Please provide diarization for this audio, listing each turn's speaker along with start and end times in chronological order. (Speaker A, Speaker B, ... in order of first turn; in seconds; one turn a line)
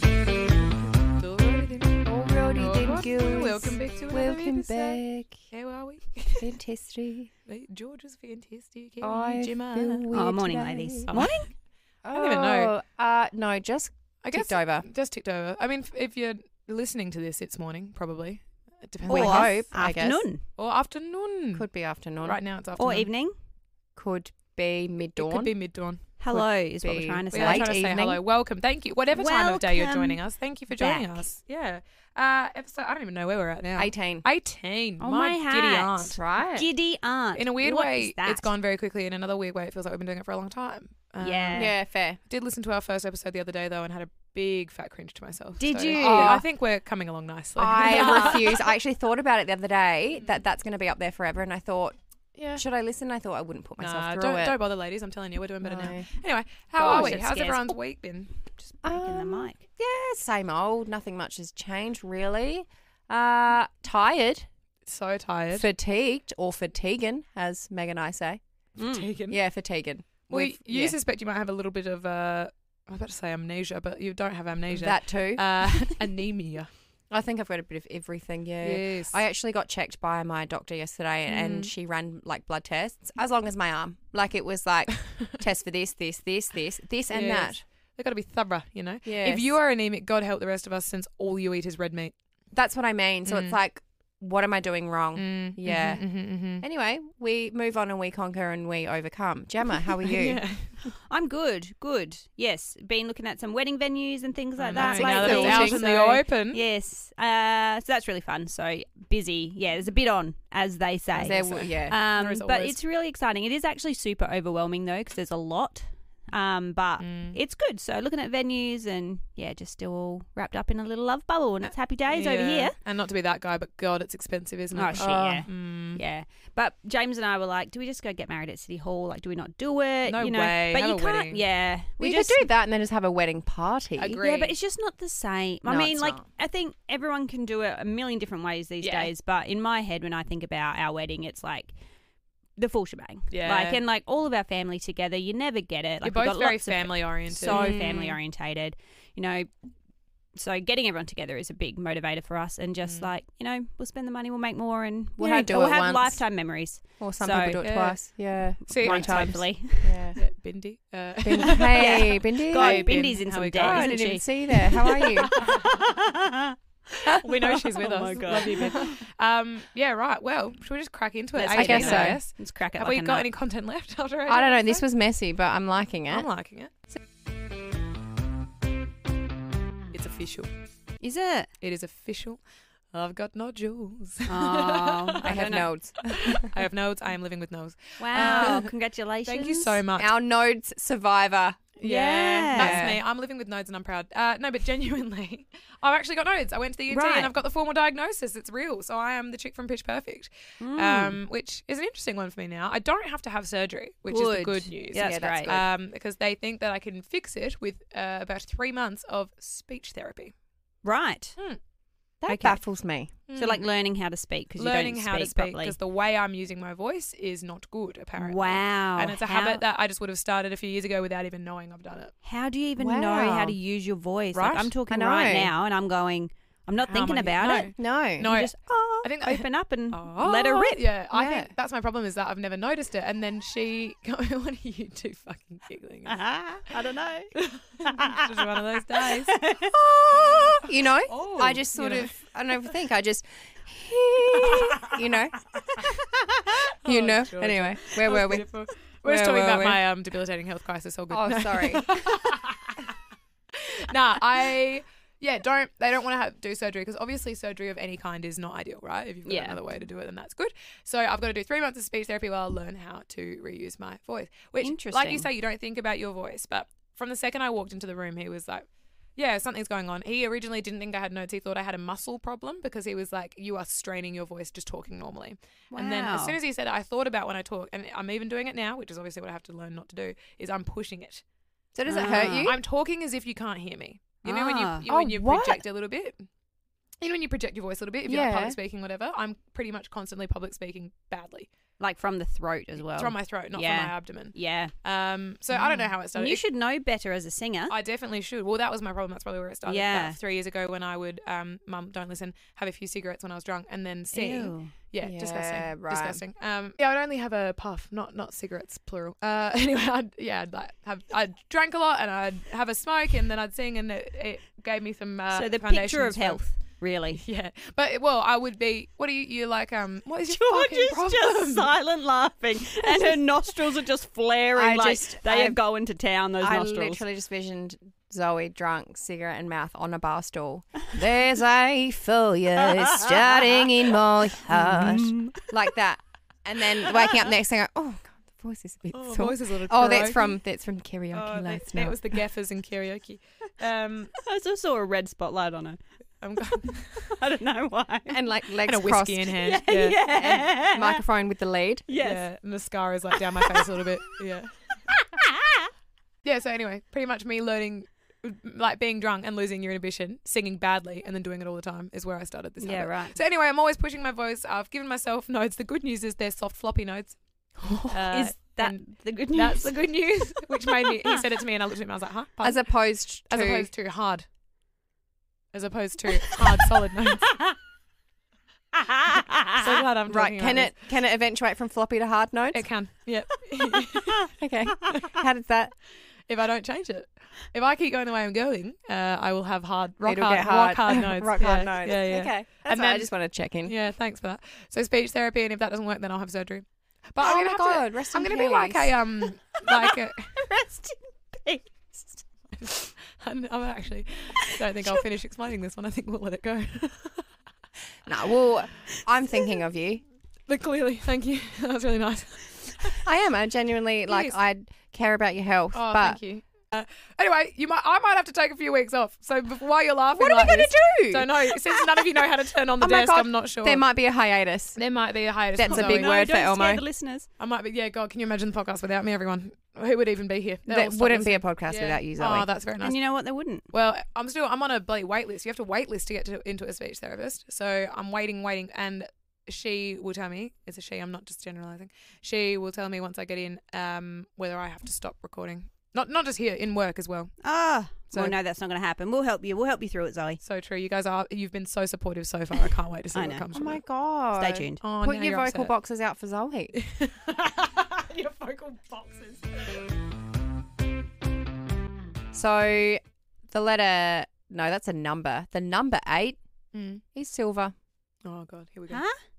Speaker A: 1.2-2.0
Speaker B: 2.0-5.4
Speaker A: 2.5-6.5
Speaker B: 6.3-7.3
Speaker A: 7.5-10.0
Speaker B: 9.0-11.1
Speaker C: 10.1-11.5
Speaker A: 11.1-11.4
Speaker B: 12.0-14.9
Speaker A: 12.1-12.7
Speaker A: 14.2-19.6
Speaker B: 19.0-20.2
Speaker C: 19.1-20.4
Speaker A: 20.6-21.6
Speaker B: 21.5-22.4
Speaker A: 22.2-23.1
Speaker C: 22.8-23.3
Speaker B: 23.9-25.5
Speaker A: 25.2-26.1
Speaker C: 26.2-27.7
Speaker B: 26.3-28.2
Speaker A: 27.3-36.2
Speaker C: 29.1-30.2
Speaker C: 30.7-31.2
Speaker B: 33.8-34.2
Speaker C: 35.0-38.5
Speaker B: 36.1-36.7
Speaker A: 37.4-41.8
Speaker C: 41.2-41.7
Speaker B: 41.5-42.2
Speaker A: 42.3-48.7
Speaker C: 45.6-46.4
Speaker B: 45.9-46.4
Speaker B: 47.5-52.0
Speaker C: 48.0-48.3
Speaker B: 52.5-54.6
Speaker A: 53.8-58.3
Speaker B: 55.6-56.1
Speaker C: 56.7-57.8
Speaker B: 56.8-57.2
Speaker C: 58.5-59.6
Speaker B: 58.8-64.5
Speaker A: 64.8-65.7
Speaker B: 65.5-68.4
Speaker C: 68.8-69.1
Speaker A: 68.8-69.4
Speaker B: 69.3-71.0
Speaker A: 70.3-76.7
Speaker B: 74.7-75.9
Speaker B: 77.1-87.6
Speaker A: 78.6-79.2
Speaker A: 81.3-81.7
Speaker A: 87.1-92.1
Speaker B: 89.0-89.5
Speaker B: 92.5-96.0
Speaker A: 93.2-93.5
Speaker A: 95.2-96.6
Speaker B: 96.6-100.4
Speaker A: 100.0-100.8
Speaker C: 101.0-122.7
Speaker A: 104.6-106.6
Speaker B: 104.7-105.9
Speaker B: 111.1-112.0
Speaker A: 111.3-112.8
Speaker A: 117.0-117.4
Speaker A: 121.6-126.0
Speaker C: 124.7-132.4
Speaker B: 124.9-125.5
Speaker A: 130.1-131.4
Speaker B: 132.0-134.2
Speaker A: 134.0-134.5
Speaker C: 134.2-141.7
Speaker B: 135.6-136.2
Speaker A: 138.8-139.1
Speaker C: 142.6-149.5
Speaker A: 143.3-143.8
Speaker A: 146.0-148.2
Speaker B: 147.5-147.9
Speaker C: 150.3-157.6
Speaker B: 155.2-156.2
Speaker B: 157.0-160.2
Speaker A: 157.6-158.0
Speaker A: 158.7-159.4
Speaker C: 158.7-160.2
Speaker A: 160.2-164.1
Speaker B: 161.2-162.9
Speaker C: 161.5-169.0
Speaker B: 163.6-165.3
Speaker A: 164.9-165.8
Speaker A: 167.1-174.8
Speaker C: 171.3-173.3
Speaker B: 171.5-172.2
Speaker B: 174.3-176.3
Speaker A: 176.1-176.7
Speaker A: 179.9-180.5
Speaker C: 181.0-181.5
Speaker A: 181.6-182.4
Speaker A: 182.9-185.5
Speaker C: 184.3-185.7
Speaker B: 185.2-186.5
Speaker A: 186.1-188.7
Speaker C: 188.0-189.8
Speaker B: 188.1-188.6
Speaker A: 189.2-190.1
Speaker B: 190.0-191.8
Speaker C: 191.8-192.9
Speaker A: 191.8-210.3
Speaker B: 192.5-193.0
Speaker C: 196.9-197.3
Speaker C: 200.6-201.2
Speaker C: 204.1-205.5
Speaker B: 204.9-205.7
Speaker C: 210.8-211.4
Speaker B: 212.2-213.1
Speaker C: 212.3-212.6
Speaker A: 213.3-213.6
Speaker C: 213.3-215.8
Speaker A: 214.6-222.1
Speaker C: 218.2-219.6
Speaker C: 222.2-230.9
Speaker B: 222.8-223.6
Speaker A: 224.3-224.7
Speaker B: 224.9-225.5
Speaker A: 226.9-236.2
Speaker B: 227.8-228.3
Speaker B: 231.1-231.5
Speaker C: 236.1-237.3
Speaker A: 237.3-239.4
Speaker C: 237.8-240.2
Speaker B: 240.1-245.8
Speaker A: 240.1-242.7
Speaker A: 244.4-245.8
Speaker C: 246.0-246.7
Speaker B: 246.8-248.5
Speaker A: 246.8-252.9
Speaker B: 249.0-249.8
Speaker B: 251.1-252.1
Speaker A: 253.5-281.2
Speaker C: 259.2-259.6
Speaker C: 264.6-265.3
Speaker C: 275.7-276.4
Speaker B: 281.7-282.6
Speaker C: 281.9-282.5
Speaker A: 282.1-286.2
Speaker C: 284.2-284.8
Speaker B: 284.9-285.6
Speaker A: 287.0-291.5
Speaker B: 288.0-288.6
Speaker C: 291.8-294.7
Speaker A: 292.9-296.4
Speaker B: 295.5-295.9
Speaker C: 296.1-297.8
Speaker A: 297.7-316.4
Speaker C: 299.6-300.2
Speaker C: 304.1-304.7
Speaker B: 305.0-306.2
Speaker C: 315.3-317.2
Speaker A: 317.1-321.7
Speaker C: 320.3-327.0
Speaker B: 324.5-325.6
Speaker B: 326.4-342.0
Speaker C: 334.4-335.5
Speaker A: 338.9-340.4
Speaker A: 341.1-344.1
Speaker C: 344.2-345.8
Speaker A: 346.2-347.1
Speaker C: 346.7-348.2
Speaker B: 348.1-349.3
Speaker A: 348.6-350.4
Speaker C: 349.4-351.0
Speaker B: 350.7-351.9
Speaker C: 351.9-352.2
Speaker A: 352.0-354.5
Speaker C: 354.9-355.7
Speaker A: 356.2-367.2
Speaker C: 362.6-363.1
Speaker B: 367.6-367.9
Speaker A: 367.8-368.8
Speaker C: 368.1-369.9
Speaker A: 369.3-372.7
Speaker C: 370.8-371.1
Speaker B: 372.4-373.7
Speaker A: 373.2-374.2
Speaker A: 375.5-377.4
Speaker C: 378.8-379.6
Speaker A: 379.5-380.8
Speaker B: 380.1-382.7
Speaker A: 382.5-384.3
Speaker B: 384.4-385.7
Speaker A: 386.3-393.1
Speaker B: 390.0-393.7
Speaker A: 393.6-400.3
Speaker B: 397.2-398.9
Speaker C: 399.6-402.0
Speaker A: 402.6-407.2
Speaker B: 408.1-410.0
Speaker A: 410.5-413.1
Speaker B: 413.0-416.2
Speaker A: 414.1-414.4
Speaker A: 415.7-423.8
Speaker B: 420.1-422.1
Speaker B: 422.8-424.8
Speaker A: 424.8-426.1
Speaker B: 425.5-426.8
Speaker C: 425.7-427.3
Speaker A: 427.4-433.0
Speaker B: 430.7-432.5
Speaker C: 432.8-433.6
Speaker A: 433.7-447.3
Speaker C: 447.4-450.4
Speaker A: 450.4-453.8
Speaker C: 453.1-453.4
Speaker B: 453.5-456.7
Speaker C: 454.3-454.8
Speaker A: 454.8-455.7
Speaker A: 456.8-459.4
Speaker B: 462.3-466.4
Speaker A: 466.7-467.0
Speaker B: 467.1-467.7
Speaker A: 468.2-469.0
Speaker C: 468.9-469.1